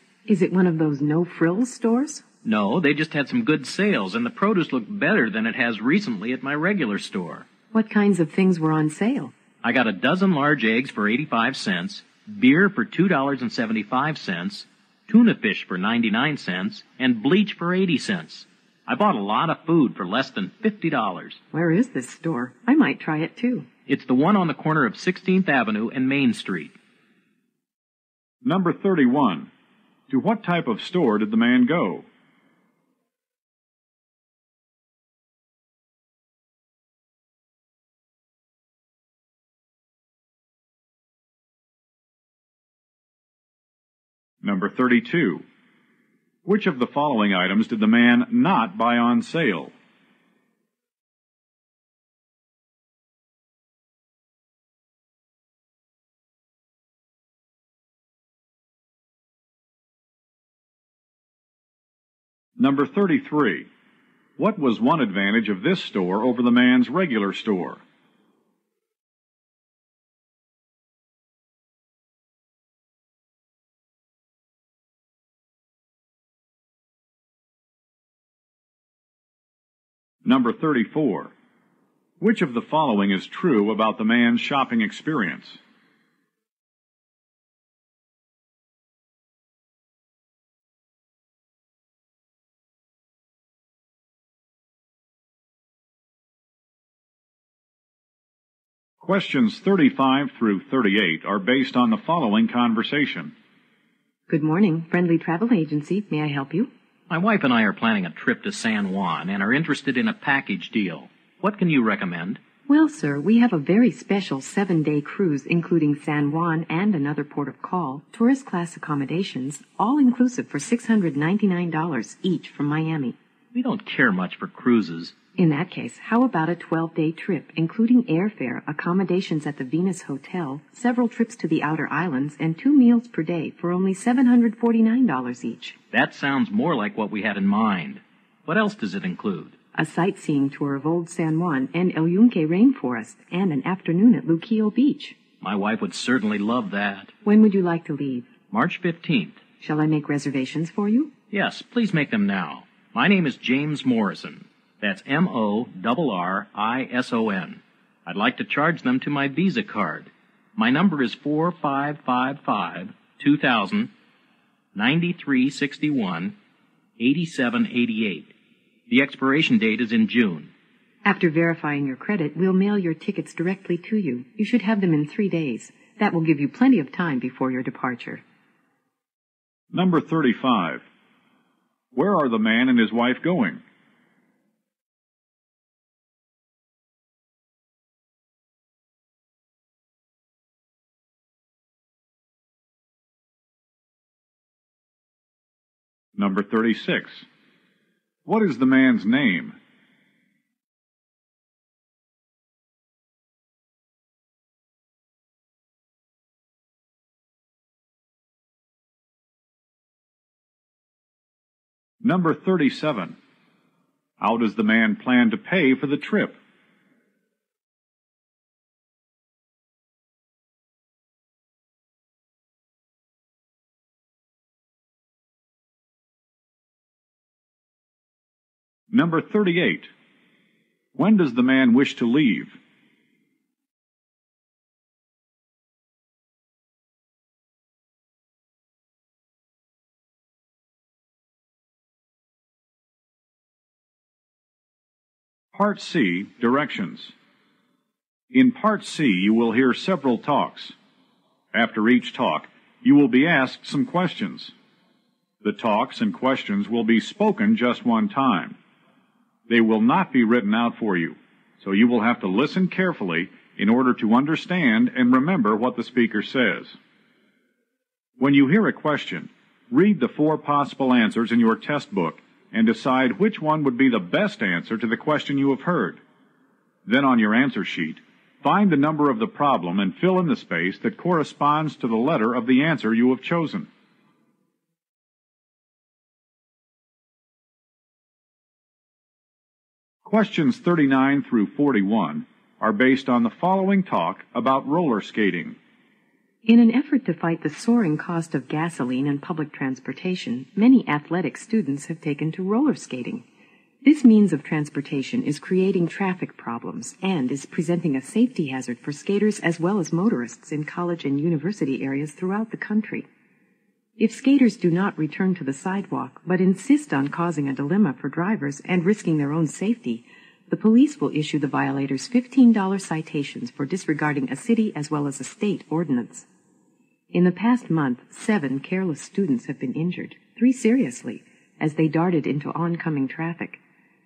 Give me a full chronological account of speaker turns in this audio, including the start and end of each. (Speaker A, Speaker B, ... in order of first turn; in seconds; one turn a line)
Speaker A: 0.2-2.2
Speaker B: 2.4-7.5
Speaker A: 7.7-9.3
Speaker B: 9.6-21.4
Speaker A: 21.5-23.7
Speaker B: 23.9-26.7
Speaker C: 28.4-29.5
Speaker C: 30.1-32.0
Speaker C: 44.4-45.4
Speaker C: 46.4-49.7
Speaker C: 62.6-63.7
Speaker C: 64.4-67.8
Speaker C: 80.2-81.3
Speaker C: 82.2-85.6
Speaker C: 99.0-103.3
Speaker A: 104.3-106.7
Speaker B: 107.1-112.4
Speaker A: 112.7-123.2
Speaker B: 123.5-125.1
Speaker A: 125.4-135.8
Speaker B: 135.9-139.5
Speaker A: 139.7-145.2
Speaker B: 145.4-147.1
Speaker A: 147.2-148.3
Speaker B: 148.5-149.4
Speaker A: 149.6-151.1
Speaker B: 151.3-163.9
Speaker B: 164.7-166.3
Speaker B: 167.0-168.3
Speaker B: 168.9-170.5
Speaker A: 171.0-178.2
Speaker C: 179.7-180.8
Speaker C: 181.9-183.6
Speaker C: 196.2-197.2
Speaker C: 198.2-199.6
Speaker C: 212.0-213.2
Speaker C: 214.2-216.4
Speaker C: 228.9-229.9
Speaker C: 230.9-232.6
Speaker C: 245.5-247.1
Speaker C: 248.3-250.8
Speaker C: 251.5-254.5
Speaker C: 255.4-258.6
Speaker C: 259.5-266.8
Speaker C: 268.2-276.0
Speaker C: 276.9-283.7
Speaker C: 290.0-295.6
Speaker A: 296.4-303.2
Speaker A: 303.8-313.1
Speaker A: 314.0-326.3
Speaker A: 327.1-333.6